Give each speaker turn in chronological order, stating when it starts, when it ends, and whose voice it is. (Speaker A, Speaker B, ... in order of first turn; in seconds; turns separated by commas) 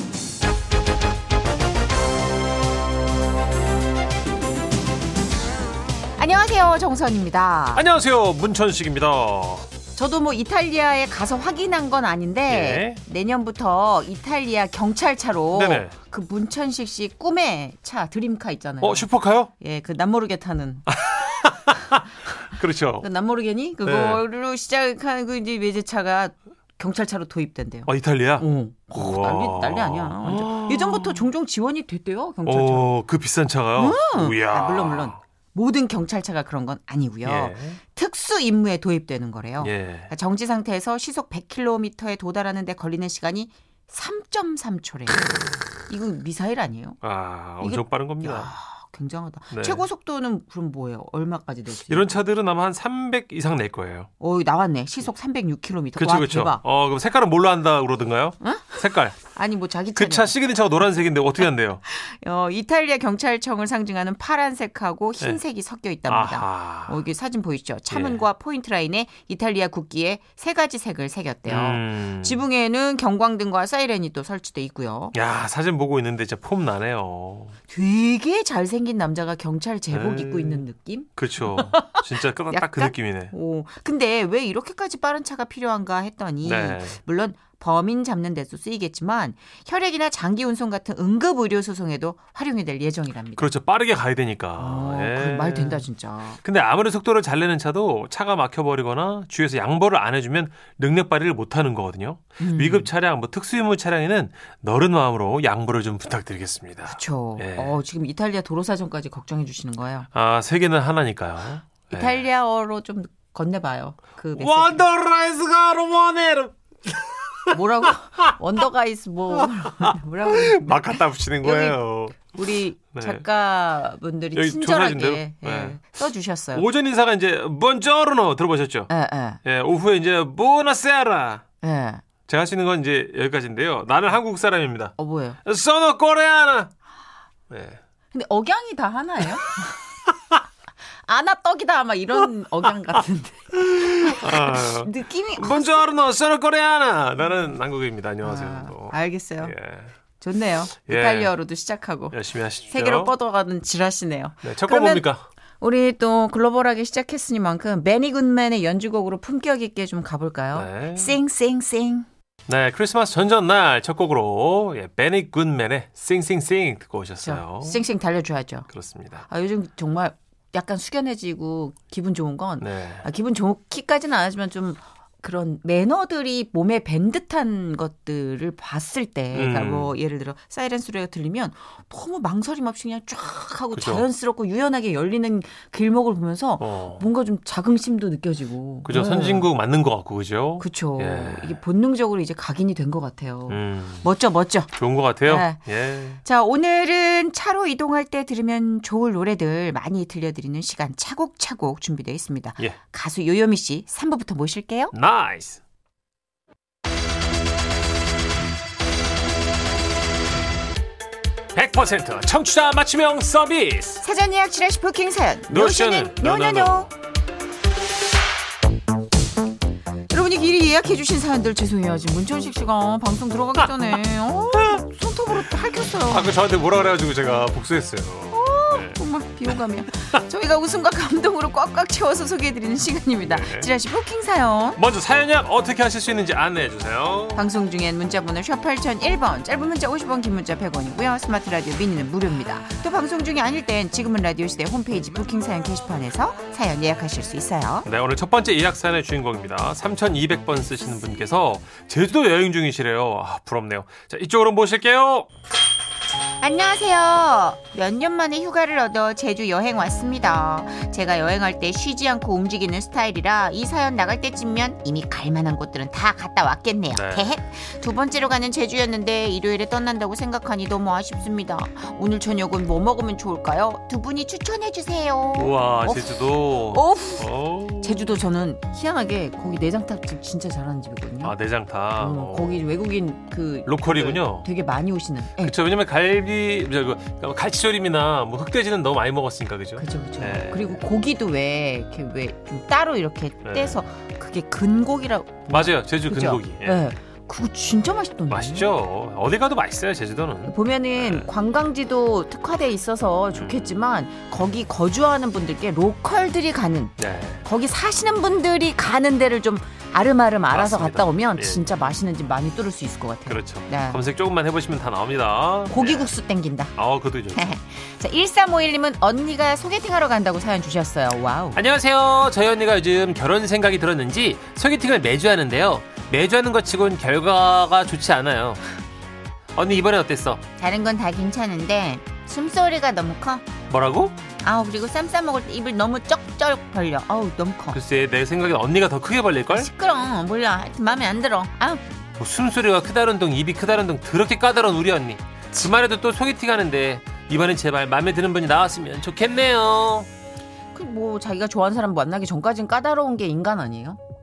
Speaker A: 6.2-7.9, Speaker B: 7.7-9.7, Speaker A: 10.0-20.9, Speaker B: 12.5-13.0, Speaker B: 15.5-15.9, Speaker B: 18.8-19.5, Speaker B: 20.9-23.1, Speaker A: 23.0-32.9, Speaker B: 23.8-24.2, Speaker B: 27.9-31.3, Speaker B: 32.5-35.2, Speaker A: 33.8-47.0, Speaker B: 37.2-37.8, Speaker B: 39.6-40.1, Speaker B: 47.0-48.5, Speaker A: 47.6-52.1, Speaker B: 49.5-49.8, Speaker B: 51.9-54.1, Speaker A: 54.2-56.6, Speaker B: 56.0-59.2, Speaker A: 58.4-60.4, Speaker B: 60.0-61.8, Speaker A: 61.9-75.2, Speaker B: 66.1-67.0, Speaker B: 67.9-68.2, Speaker B: 71.5-72.4, Speaker B: 75.1-77.6, Speaker A: 77.7-93.5, Speaker B: 79.9-80.6, Speaker B: 81.2-83.3, Speaker B: 86.4-87.0, Speaker B: 93.4-95.8, Speaker A: 94.6-96.4, Speaker B: 96.4-107.8, Speaker A: 102.4-102.9, Speaker A: 106.9-110.1, Speaker B: 110.1-112.2, Speaker A: 111.9-114.8, Speaker B: 114.3-118.3, Speaker A: 117.5-126.7, Speaker B: 119.3-122.3, Speaker B: 122.9-123.2, Speaker B: 124.3-125.8, Speaker B: 126.5-128.9, Speaker A: 128.9-129.4, Speaker B: 129.4-131.4, Speaker A: 131.6-132.0, Speaker B: 132.3-136.7, Speaker A: 135.0-135.4, Speaker B: 137.5-137.8, Speaker A: 138.1-139.8, Speaker A: 141.1-145.8, Speaker B: 143.5-149.9, Speaker A: 148.2-149.6, Speaker A: 150.2-152.2, Speaker B: 150.9-151.3, Speaker B: 152.1-153.1, Speaker A: 152.7-155.1, Speaker B: 154.4-155.2, Speaker A: 155.6-162.1, Speaker B: 160.5-161.2, Speaker B: 162.5-167.8, Speaker A: 167.2-168.7, Speaker B: 168.7-169.3, Speaker A: 169.3-189.5, Speaker B: 172.6-173.1, Speaker B: 179.3-180.0, Speaker B: 183.7-184.1, Speaker B: 186.6-187.1, Speaker B: 188.8-191.6, Speaker A: 190.6-194.7, Speaker B: 193.5-194.1, Speaker B: 194.7-196.2, Speaker A: 195.3-195.6, Speaker A: 196.2-204.9, Speaker B: 204.9-205.6, Speaker B: 211.5-214.0, Speaker A: 214.0-216.9, Speaker B: 215.5-216.9, Speaker A: 220.1-226.3, Speaker B: 226.1-229.0, Speaker A: 228.3-234.8, Speaker B: 233.2-233.7, Speaker B: 234.8-237.5, Speaker A: 237.3-247.9, Speaker B: 247.8-255.3, Speaker A: 256.4-277.3, Speaker B: 266.9-267.3, Speaker B: 275.4-278.1, Speaker A: 277.8-281.3, Speaker B: 281.2-282.6, Speaker A: 282.0-285.6, Speaker B: 283.7-284.5, Speaker B: 285.4-290.8, Speaker A: 289.8-298.7, Speaker B: 293.4-293.8, Speaker B: 295.5-296.9, Speaker B: 298.3-301.3, Speaker A: 300.5-314.0, Speaker B: 303.3-303.7, Speaker B: 307.0-307.4, Speaker B: 310.5-311.7, Speaker B: 313.3-316.1, Speaker A: 315.7-316.7, Speaker B: 316.8-317.5, Speaker A: 317.4-321.6, Speaker B: 321.6-328.6, Speaker B: 329.6-330.4, Speaker A: 330.6-333.5, Speaker B: 333.7-334.1, Speaker A: 334.4-337.8, Speaker B: 337.7-339.7, Speaker A: 339.5-341.8, Speaker B: 342.2-350.1, Speaker A: 350.7-354.0